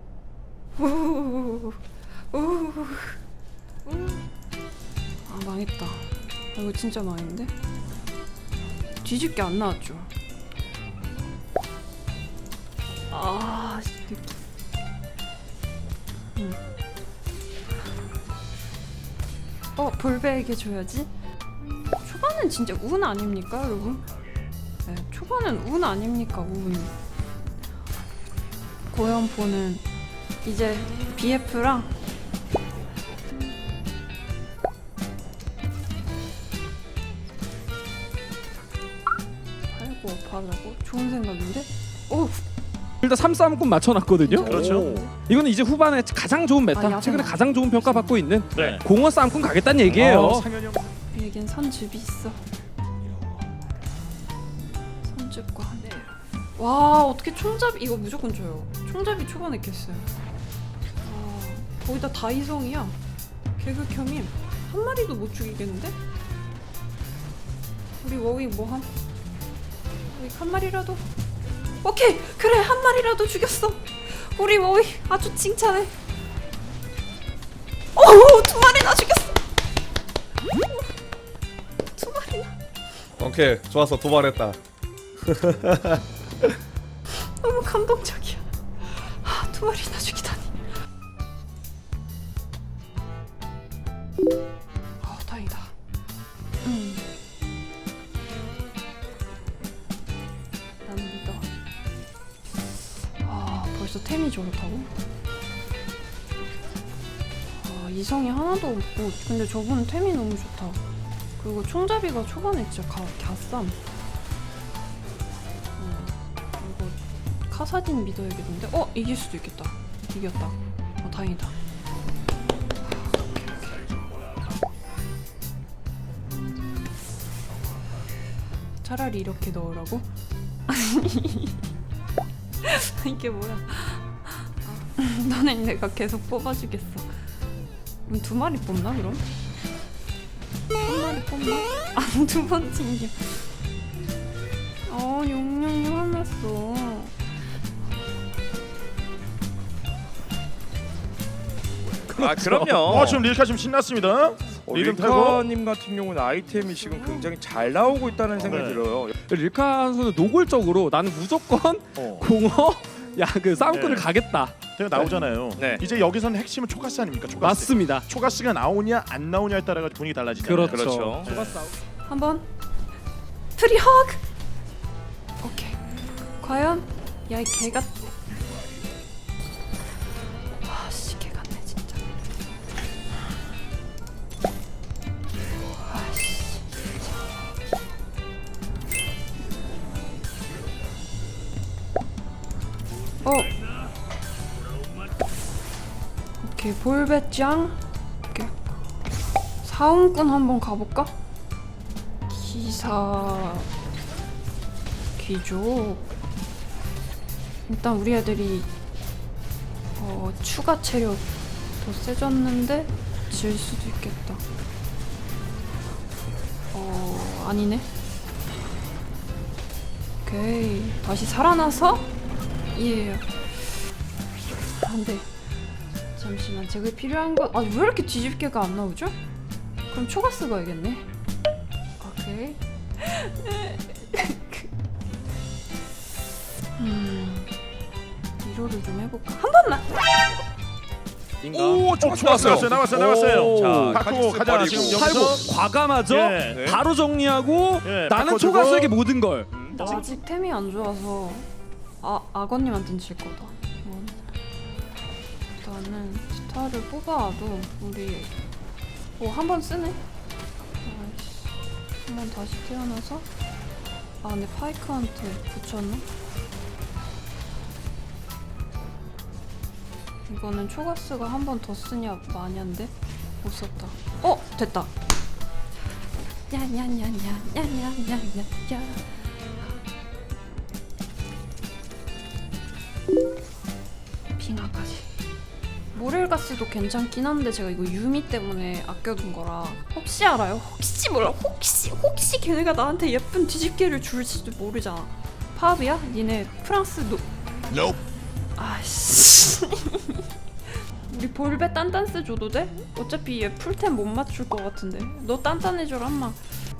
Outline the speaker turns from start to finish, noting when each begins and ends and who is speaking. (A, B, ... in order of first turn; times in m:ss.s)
0:00.8-0:01.8 A
0:02.3-0:03.2 A
0:03.8-0:04.2 A
0:05.3-0:07.5 A
0:09.0-0:10.1 A
0:13.1-0:14.4 A
0:16.3-0:16.6 A
0:19.8-0:21.1 A
0:21.9-0:24.0 A
0:24.8-0:26.9 A
0:28.9-0:29.8 A
0:30.4-0:31.9 A
0:39.7-0:42.4 A
0:43.0-0:50.5 B
0:44.2-0:45.1 A
0:44.4-0:45.0 C
0:44.6-0:44.9 D
0:46.7-0:48.4 A
0:48.5-0:48.8 C
0:49.9-0:50.9 C
0:51.1-0:52.4 A
0:55.0-1:00.1 A
1:01.0-1:03.0 A
1:03.6-1:06.0 A
1:08.0-1:08.9 A
1:10.1-1:11.0 A
1:11.8-1:15.9 A
1:17.9-1:19.4 A
1:21.9-1:22.5 A
1:23.2-1:24.6 E
1:25.2-1:26.5 E
1:27.1-1:30.6 A
1:35.0-1:35.7 A
1:36.6-1:37.0 A
1:40.8-1:41.5 A
1:43.2-1:44.9 A
1:47.6-1:50.8 A
1:51.4-1:53.8 A
1:55.8-2:01.5 A
2:02.8-2:03.9 A
2:08.8-2:10.1 A
2:10.7-2:11.6 A
2:12.6-2:17.2 A
2:18.0-2:19.2 A
2:20.8-2:23.5 A
2:24.8-2:27.1 A
2:32.1-2:33.0 B
2:32.1-2:33.2 D
2:32.8-2:35.4 C
2:34.7-2:39.1 D
2:37.0-2:37.3 A
2:38.4-2:38.8 C
2:39.3-2:45.1 B
2:42.0-2:42.3 C
2:43.7-2:44.1 C
2:44.7-2:51.6 C
2:45.5-2:45.8 D
2:47.4-2:48.0 B
2:50.4-2:51.7 B
2:50.6-2:51.3 D
2:52.0-2:52.4 A
2:53.6-2:54.2 A
2:55.4-2:55.8 A
2:56.4-2:58.1 A
3:00.6-3:02.0 A
3:05.8-3:06.8 A
3:13.2-3:13.6 A
3:16.4-3:18.8 A
3:19.6-3:21.2 A
3:22.3-3:23.7 A
3:25.2-3:26.0 A
3:27.7-3:28.7 A
3:30.0-3:31.2 A
3:31.8-3:34.4 A
3:36.7-3:37.9 A
3:40.2-3:42.1 A
3:42.7-3:43.8 A
3:44.8-3:45.3 A
3:46.1-3:49.2 A
3:49.9-3:51.1 A
3:52.0-3:54.7 A
3:56.8-3:57.5 A
3:58.4-3:59.9 A
4:01.4-4:01.9 B
4:01.5-4:05.3 D
4:02.0-4:05.4 C
4:02.5-4:04.0 B
4:04.8-4:09.6 B
4:06.0-4:06.6 C
4:06.5-4:06.8 D
4:07.8-4:08.9 C
4:09.5-4:10.0 D
4:09.7-4:11.5 A
4:09.7-4:10.1 C
4:12.0-4:14.2 A
4:15.6-4:18.3 A
4:19.2-4:20.0 A
4:20.8-4:23.3 A
4:24.2-4:26.1 A
4:30.2-4:34.9 A
4:36.5-4:39.7 A
4:44.4-4:45.1 A
4:45.9-4:57.2 A
4:58.6-5:00.2 A
5:00.7-5:06.4 A